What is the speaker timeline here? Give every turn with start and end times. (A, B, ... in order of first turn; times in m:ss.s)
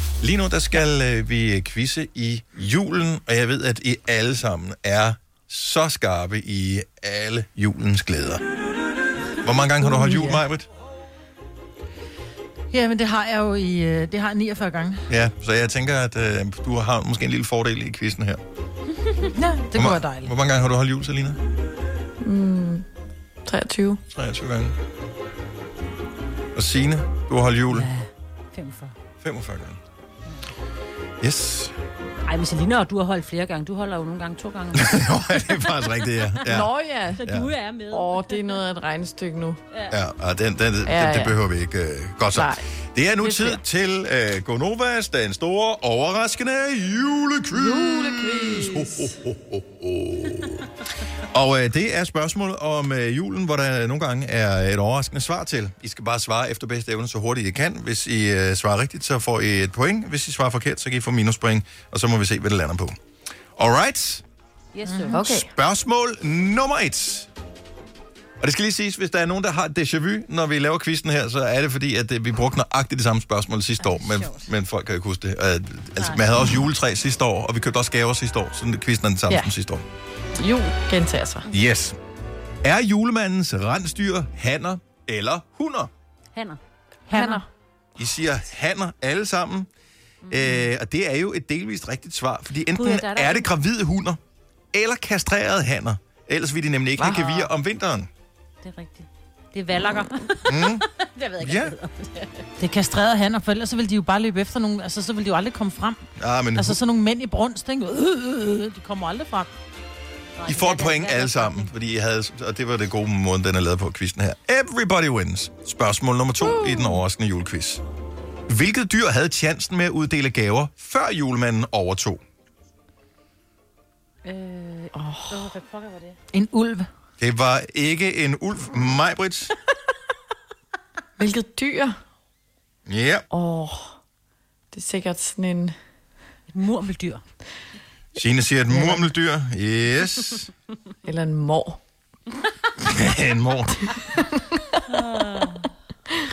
0:00.2-0:08.4 A
0:09.4-0:10.7 A
0:09.7-0:10.4 B
0:12.7-0:15.1 B
0:15.1-0:18.4 A
0:19.2-0:20.3 B
0:19.7-0:21.4 A
0:22.2-0:22.8 C
0:23.4-0:24.0 C
0:24.1-0:24.8 A
0:26.5-0:27.9 A
0:27.7-0:28.9 D
0:29.2-0:29.8 A
0:31.2-0:31.7 A
0:32.2-0:35.8 D
0:34.7-0:36.7 A
0:36.4-0:37.2 C
0:37.2-0:38.6 D
0:37.2-0:37.5 A
0:37.9-0:39.6 C
0:39.9-0:50.7 A
0:40.8-0:41.4 C
0:42.3-0:42.6 C
0:43.2-0:43.6 C
0:47.5-0:49.1 C
0:51.3-1:03.0 A
1:03.6-1:04.2 A
1:04.7-1:05.3 D
1:04.9-1:05.2 B
1:05.1-1:05.5 C
1:05.2-1:07.3 A
1:08.4-1:19.8 A
1:13.8-1:14.5 D
1:16.0-1:16.2 D
1:20.4-1:21.5 C
1:21.5-1:22.0 A
1:22.6-1:25.9 A
1:26.3-1:26.6 D
1:27.1-1:27.4 B
1:27.1-1:27.4 C
1:28.0-1:29.7 A
1:30.2-1:34.2 A
1:32.7-1:33.5 D
1:34.7-1:38.1 A
1:37.0-1:37.2 C
1:37.0-1:37.5 D
1:38.6-1:42.5 D
1:40.5-1:40.8 A
1:41.4-1:41.8 A
1:42.6-1:46.0 B
1:46.2-1:46.8 A
1:46.5-1:49.5 B
1:50.4-1:51.7 D
1:50.5-1:57.8 A
1:56.4-1:57.0 C
1:58.5-2:02.2 A
2:04.2-2:06.2 D
2:04.9-2:05.5 C
2:06.3-2:06.9 B
2:07.2-2:09.5 A
2:11.2-2:12.0 C
2:12.9-2:13.2 A
2:13.3-2:14.0 C
2:14.7-2:15.7 C
2:16.5-2:17.2 D
2:18.2-2:20.5 A
2:21.0-2:21.8 C
2:22.8-2:24.2 A
2:24.9-2:25.7 D